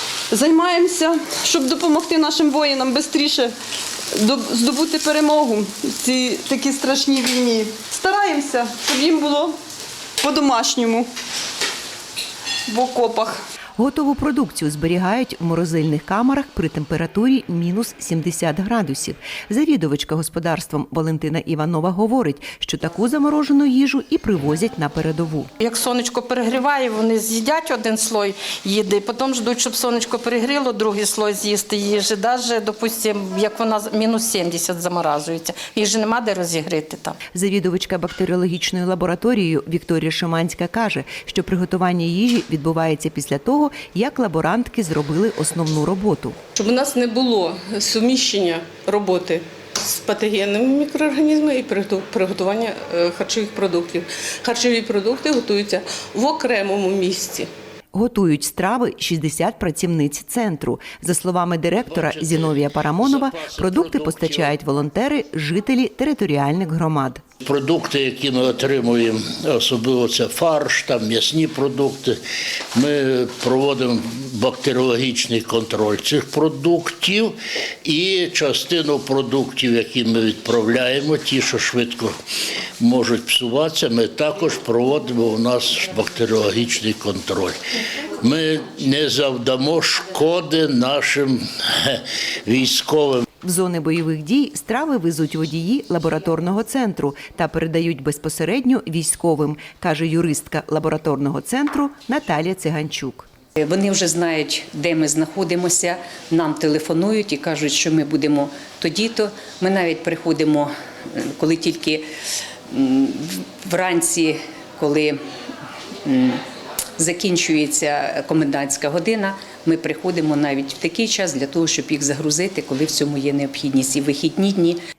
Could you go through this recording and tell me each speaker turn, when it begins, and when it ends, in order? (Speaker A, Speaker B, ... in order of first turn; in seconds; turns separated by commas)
Speaker A: 0.3-3.5, Speaker A: 4.2-9.5, Speaker A: 10.2-11.1, Speaker A: 12.7-13.4, Speaker B: 13.8-25.5, Speaker C: 25.6-37.1, Speaker B: 37.3-46.4, Speaker D: 46.5-57.5, Speaker B: 57.9-67.2, Speaker E: 61.9-64.6, Speaker E: 67.4-72.2, Speaker E: 72.7-82.1, Speaker E: 82.8-87.5, Speaker E: 88.2-93.2, Speaker B: 93.4-103.3, Speaker F: 103.6-112.0, Speaker F: 112.7-115.2, Speaker F: 116.0-116.4, Speaker F: 117.0-124.8